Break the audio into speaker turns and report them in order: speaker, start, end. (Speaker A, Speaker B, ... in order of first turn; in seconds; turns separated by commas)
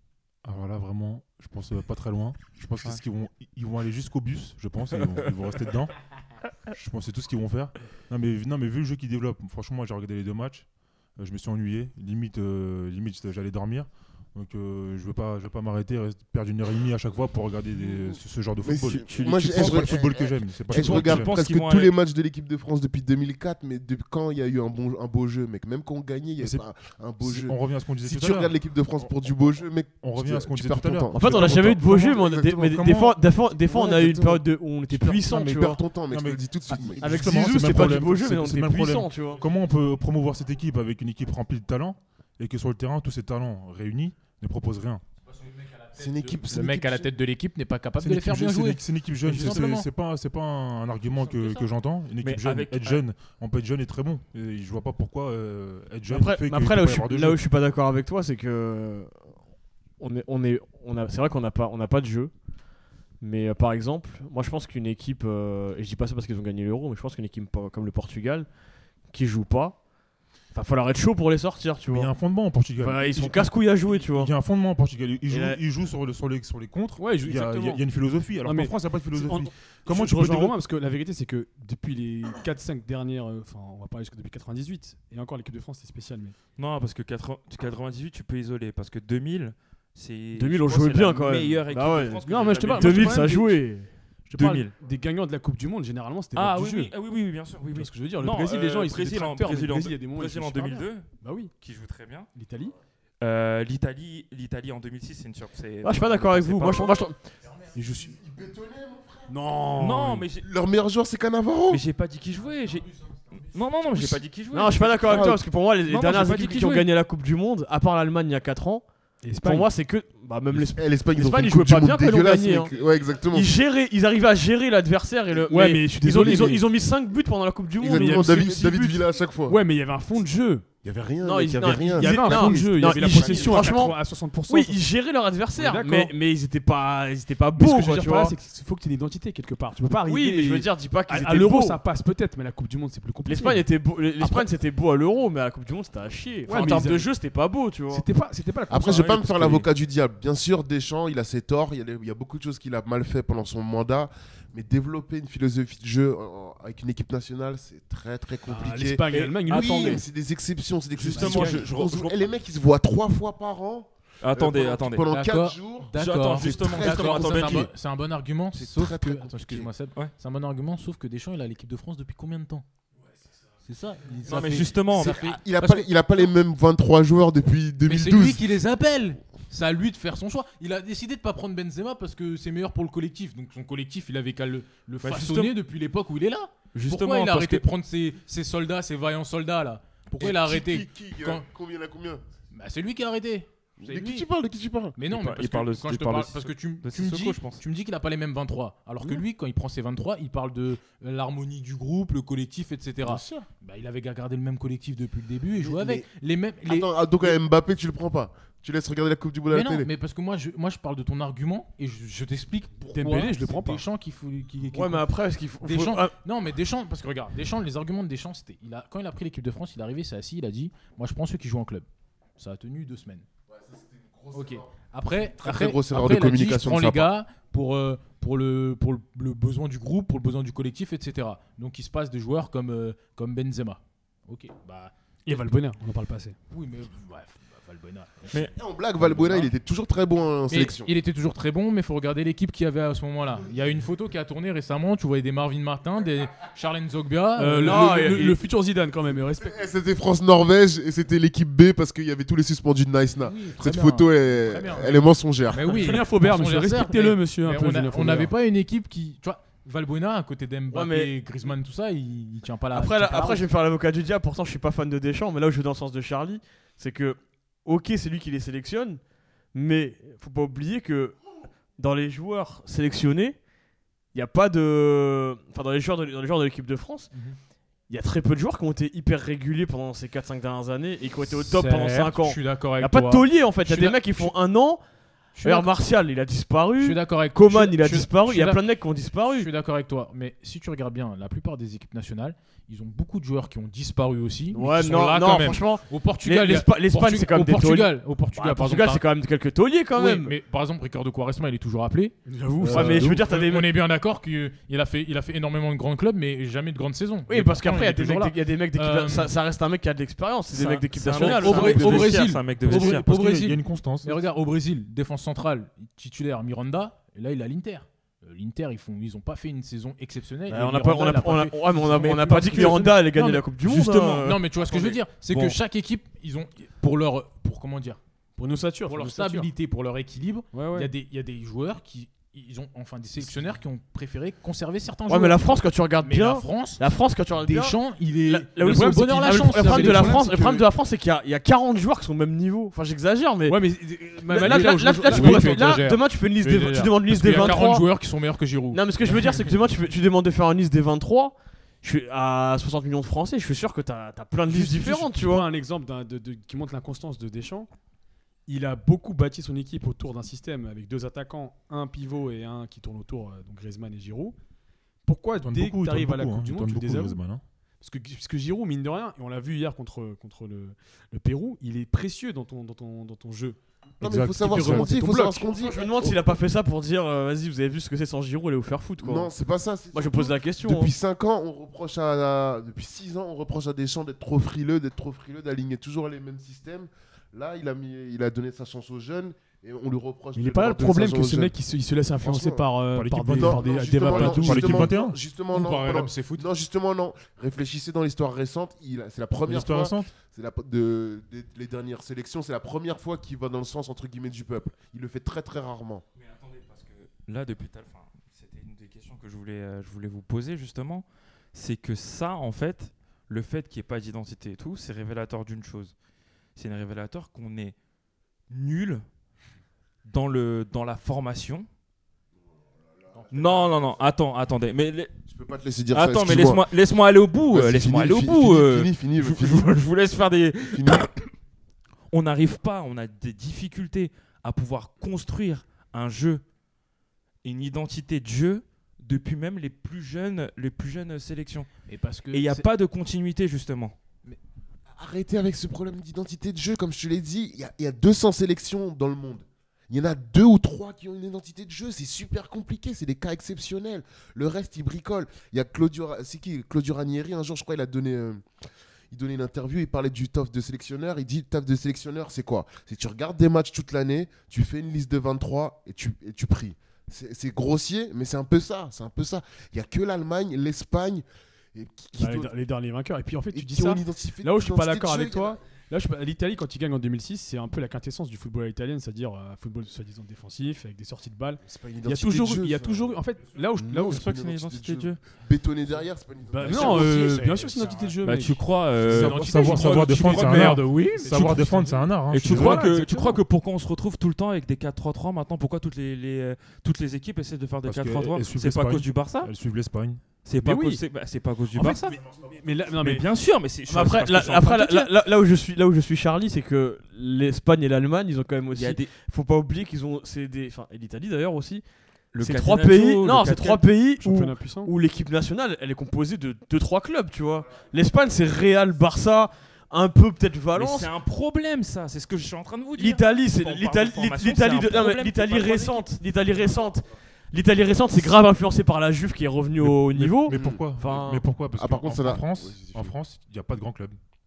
Speaker A: 0.4-6.0, Speaker A: 6.7-21.4, Speaker B: 18.1-32.8, Speaker C: 18.9-21.9, Speaker A: 26.4-26.6, Speaker A: 27.2-29.1, Speaker A: 30.0-33.2, Speaker D: 31.1-35.8, Speaker B: 33.7-34.4, Speaker A: 34.9-45.0, Speaker B: 35.3-37.4, Speaker D: 37.0-39.4, Speaker E: 45.2-49.9, Speaker B: 45.9-47.1, Speaker A: 48.0-57.4, Speaker E: 51.2-51.6, Speaker C: 52.2-53.0, Speaker D: 56.1-59.3, Speaker D: 60.0-62.4, Speaker D: 63.2-69.9, Speaker D: 70.5-72.2, Speaker A: 71.8-80.6, Speaker D: 72.7-74.3, Speaker D: 75.3-75.6, Speaker F: 77.0-77.8, Speaker F: 78.3-86.3, Speaker C: 86.6-93.4, Speaker D: 90.3-93.9, Speaker F: 92.2-93.7, Speaker F: 94.2-96.9, Speaker C: 94.3-94.7, Speaker C: 96.3-102.3, Speaker F: 97.7-101.5, Speaker F: 102.3-102.7, Speaker C: 103.2-107.1, Speaker D: 105.8-107.2, Speaker B: 107.7-109.3, Speaker F: 109.3-110.3, Speaker C: 109.8-110.5, Speaker B: 110.4-111.8, Speaker C: 111.7-116.9, Speaker D: 114.5-122.8, Speaker B: 115.0-115.4, Speaker F: 119.2-119.7, Speaker B: 120.5-123.5, Speaker D: 123.3-128.8, Speaker F: 125.5-126.6, Speaker B: 127.8-129.6, Speaker F: 127.9-130.7, Speaker B: 130.8-133.8, Speaker D: 131.2-138.3, Speaker F: 131.7-134.8, Speaker F: 135.5-136.1, Speaker F: 137.5-143.7, Speaker D: 140.0-141.8, Speaker D: 143.2-148.1, Speaker F: 144.2-144.5, Speaker F: 146.5-147.1, Speaker C: 146.5-146.8, Speaker F: 147.9-149.6, Speaker B: 148.7-167.7, Speaker C: 148.9-149.6, Speaker F: 158.4-160.0, Speaker C: 159.1-160.0, Speaker C: 161.0-162.2, Speaker F: 161.1-161.6, Speaker C: 164.2-165.1, Speaker E: 165.1-172.6, Speaker C: 165.9-167.7, Speaker B: 168.5-169.7, Speaker E: 173.6-176.3, Speaker C: 174.2-175.3, Speaker B: 174.9-178.4, Speaker E: 177.8-191.4, Speaker C: 185.0-185.5, Speaker C: 186.7-187.6, Speaker B: 190.2-192.2, Speaker E: 192.5-194.3, Speaker B: 193.8-195.0, Speaker E: 195.0-207.4, Speaker C: 195.1-197.6, Speaker B: 203.0-203.5, Speaker B: 205.6-206.1, Speaker B: 206.7-209.9, Speaker E: 209.5-215.1, Speaker F: 212.9-213.8, Speaker D: 214.7-216.1, Speaker E: 215.6-223.2, Speaker B: 223.5-227.1, Speaker E: 224.3-234.9, Speaker F: 235.2-236.3, Speaker E: 236.5-239.5, Speaker B: 238.3-240.9, Speaker E: 240.5-248.4, Speaker F: 247.4-249.6, Speaker D: 247.7-248.3, Speaker B: 249.4-255.8, Speaker E: 253.2-263.5, Speaker F: 255.6-258.3, Speaker D: 260.7-261.1, Speaker D: 262.7-271.2, Speaker D: 271.8-273.4, Speaker D: 274.1-277.1, Speaker E: 277.1-277.4, Speaker D: 277.9-284.8, Speaker E: 281.3-284.3, Speaker E: 285.3-285.7, Speaker D: 285.4-289.5, Speaker E: 286.8-299.0, Speaker D: 294.5-300.3, Speaker E: 299.9-309.3, Speaker F: 302.3-303.2, Speaker A: 302.7-303.1, Speaker D: 302.7-303.7, Speaker D: 307.3-312.4, Speaker E: 310.6-328.0, Speaker C: 310.9-313.0, Speaker A: 312.6-314.2, Speaker D: 320.5-324.7, Speaker C: 324.6-325.5, Speaker F: 328.4-329.5, Speaker E: 328.9-336.8, Speaker F: 330.5-330.9, Speaker D: 335.1-343.6, Speaker E: 337.4-340.6, Speaker F: 338.7-340.6, Speaker F: 343.5-345.8, Speaker D: 344.3-347.9, Speaker E: 344.3-349.4, Speaker D: 348.7-355.5, Speaker F: 354.5-357.7, Speaker F: 358.5-364.4, Speaker F: 365.0-367.2, Speaker A: 365.4-367.4, Speaker F: 367.8-373.6, Speaker B: 374.0-376.2, Speaker A: 374.0-374.9, Speaker F: 374.4-375.4, Speaker D: 375.4-379.3, Speaker B: 379.0-391.5, Speaker D: 379.9-380.9, Speaker F: 390.3-394.9, Speaker B: 392.2-392.6, Speaker A: 392.9-395.2, Speaker B: 393.3-406.0, Speaker E: 395.5-396.4, Speaker A: 399.4-400.1, Speaker C: 406.1-415.9, Speaker C: 416.6-417.8, Speaker C: 418.5-419.0, Speaker C: 420.0-421.7, Speaker B: 423.1-423.5, Speaker C: 423.3-425.1, Speaker B: 425.3-426.6, Speaker C: 425.9-431.3, Speaker B: 427.5-429.8, Speaker B: 430.7-431.1, Speaker C: 432.1-436.4, Speaker C: 437.4-441.7, Speaker E: 441.9-442.6, Speaker C: 442.3-443.9, Speaker B: 444.9-458.4, Speaker B: 459.1-472.5, Speaker F: 472.1-484.2, Speaker B: 473.5-475.6, Speaker B: 481.6-483.2, Speaker B: 483.7-487.4, Speaker C: 484.0-485.2, Speaker F: 486.5-488.6, Speaker E: 486.7-488.1, Speaker C: 488.2-490.8, Speaker A: 489.0-492.9, Speaker E: 489.1-492.0, Speaker F: 490.8-493.4, Speaker C: 492.3-499.5, Speaker A: 497.8-500.3, Speaker C: 500.4-502.2, Speaker F: 500.6-501.0, Speaker F: 501.7-503.3, Speaker C: 503.0-505.1, Speaker D: 503.9-511.8, Speaker C: 508.7-509.1, Speaker C: 512.3-513.8, Speaker D: 512.4-521.1, Speaker F: 514.2-514.9, Speaker C: 520.7-526.1, Speaker D: 523.0-531.5, Speaker A: 529.8-534.2, Speaker B: 530.5-530.8, Speaker B: 531.8-533.1